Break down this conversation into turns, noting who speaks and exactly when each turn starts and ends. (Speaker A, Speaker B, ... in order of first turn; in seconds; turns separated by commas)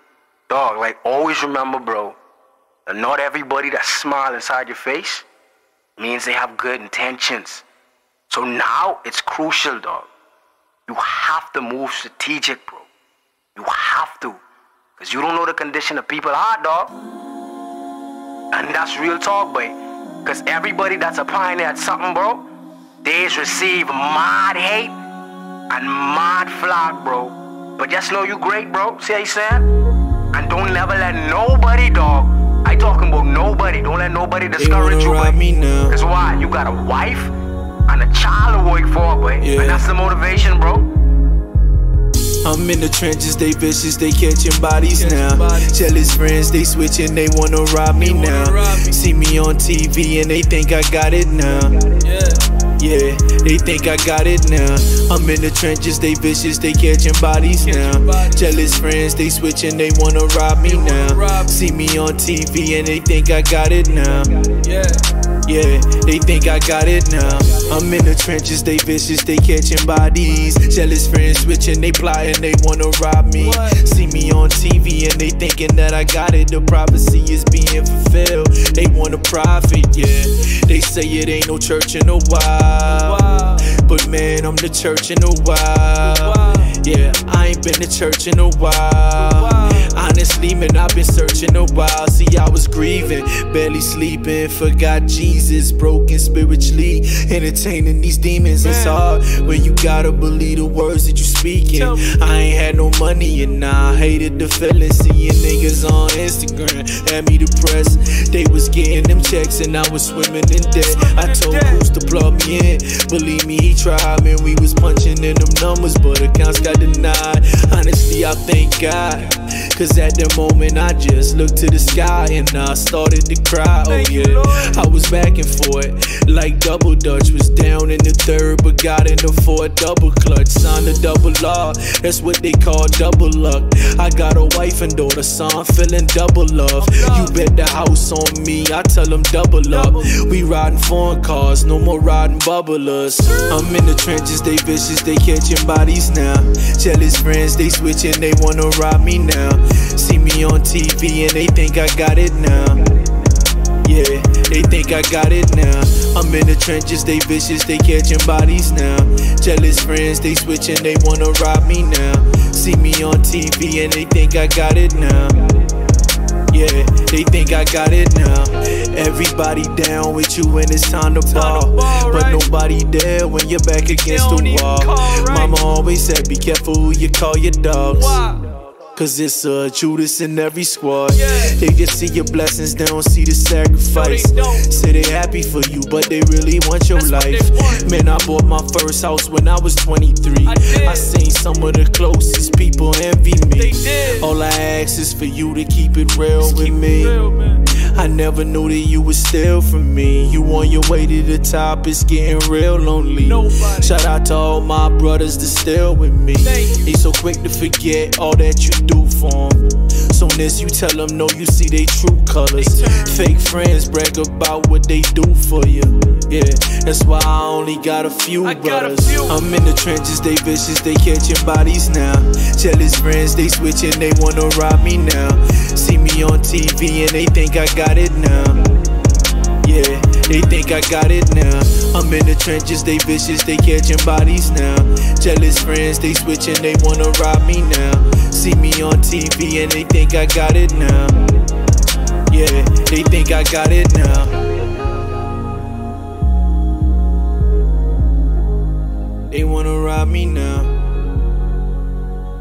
Speaker A: 0.5-2.2, Speaker A: 2.9-5.2, Speaker A: 6.0-7.6, Speaker A: 8.3-10.1, Speaker A: 10.9-12.9, Speaker A: 13.5-14.4, Speaker A: 15.0-16.9, Speaker A: 18.5-22.5, Speaker A: 23.0-24.9, Speaker A: 25.7-29.7, Speaker A: 30.3-37.3, Speaker B: 34.5-36.0, Speaker A: 37.9-40.9, Speaker B: 39.4-39.9, Speaker B: 42.4-51.9, Speaker C: 44.9-45.9, Speaker C: 48.0-49.0, Speaker C: 52.0-52.5, Speaker B: 52.8-64.5, Speaker C: 57.6-58.6, Speaker C: 60.6-61.5, Speaker C: 64.6-65.0, Speaker B: 65.4-152.9, Speaker C: 73.4-73.8, Speaker C: 82.9-83.7, Speaker C: 86.0-86.7, Speaker C: 89.2-90.0, Speaker C: 98.6-99.0, Speaker C: 101.7-102.1, Speaker C: 110.8-111.8, Speaker C: 123.9-124.8, Speaker C: 136.8-137.3, Speaker C: 139.7-140.1, Speaker B: 153.8-165.6, Speaker B: 166.5-178.2, Speaker C: 171.2-172.5, Speaker C: 174.0-175.6, Speaker C: 177.9-178.5, Speaker B: 178.9-197.2, Speaker C: 181.1-181.6, Speaker C: 183.9-184.7, Speaker C: 186.9-187.9, Speaker C: 190.4-191.1, Speaker C: 193.6-194.3, Speaker C: 196.4-197.6, Speaker B: 197.8-228.7, Speaker C: 203.2-203.9, Speaker C: 206.4-206.9, Speaker C: 212.6-213.2, Speaker C: 218.4-219.4, Speaker B: 229.6-241.3, Speaker B: 242.3-244.5, Speaker B: 249.3-250.7